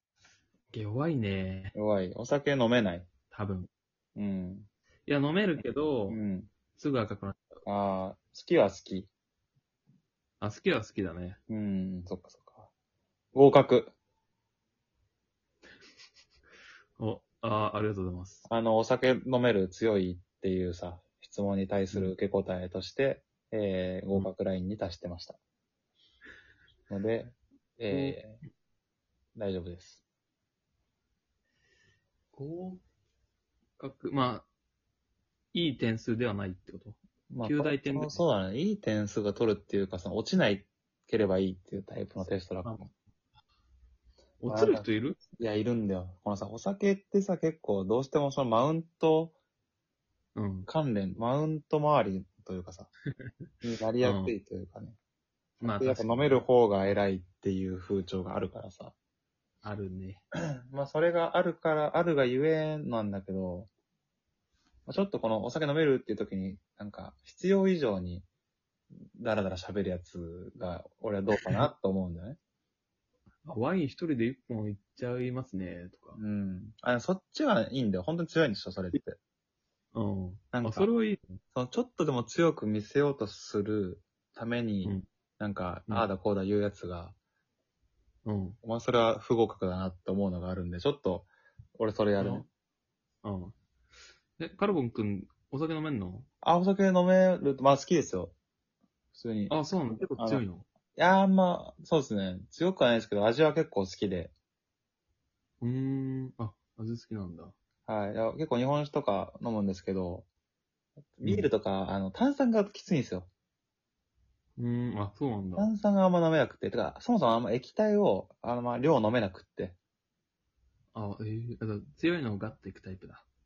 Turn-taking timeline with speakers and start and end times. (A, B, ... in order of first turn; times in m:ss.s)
0:00.7-0:01.8 A
0:01.7-0:03.1 B
0:03.3-0:03.7 A
0:04.1-0:04.7 B
0:05.0-0:06.2 A
0:06.1-0:06.5 B
0:06.7-0:07.4 A
0:07.6-0:09.1 B
0:10.4-0:11.4 A
0:11.5-0:12.7 B
0:13.3-0:13.9 B
0:17.0-0:18.5 A
0:18.5-0:25.4 B
0:26.9-0:28.4 B
0:27.9-0:28.2 A
0:29.4-0:30.0 B
0:32.3-0:32.8 A
0:33.8-0:34.5 A
0:35.5-0:38.2 A
0:37.3-0:42.9 B
0:42.6-0:42.9 A
0:44.4-0:45.2 A
0:44.5-0:49.4 B
0:50.3-0:50.7 A
0:50.7-0:52.9 B
0:53.6-0:55.0 B
0:54.0-0:54.3 A
0:55.6-0:56.4 A
0:55.6-0:58.9 B
0:59.6-1:00.2 A
1:00.7-1:03.7 B
1:04.8-1:08.2 B
1:09.1-1:12.4 B
1:13.4-1:16.2 A
1:16.2-1:19.2 B
1:19.9-1:21.3 A
1:20.5-1:20.9 B
1:21.5-1:27.2 B
1:28.2-1:28.6 A
1:28.6-1:32.5 B
1:32.2-1:32.4 A
1:33.2-1:33.6 A
1:34.4-1:36.3 A
1:36.4-1:38.3 B
1:39.1-1:39.6 B
1:39.5-1:40.6 A
1:40.2-1:40.4 B
1:40.9-1:44.3 B
1:45.6-1:47.5 A
1:47.8-1:50.3 B
1:51.1-1:53.3 B
1:51.2-1:51.5 A
1:54.6-1:55.7 A
1:55.6-1:59.8 B
2:00.9-2:03.2 A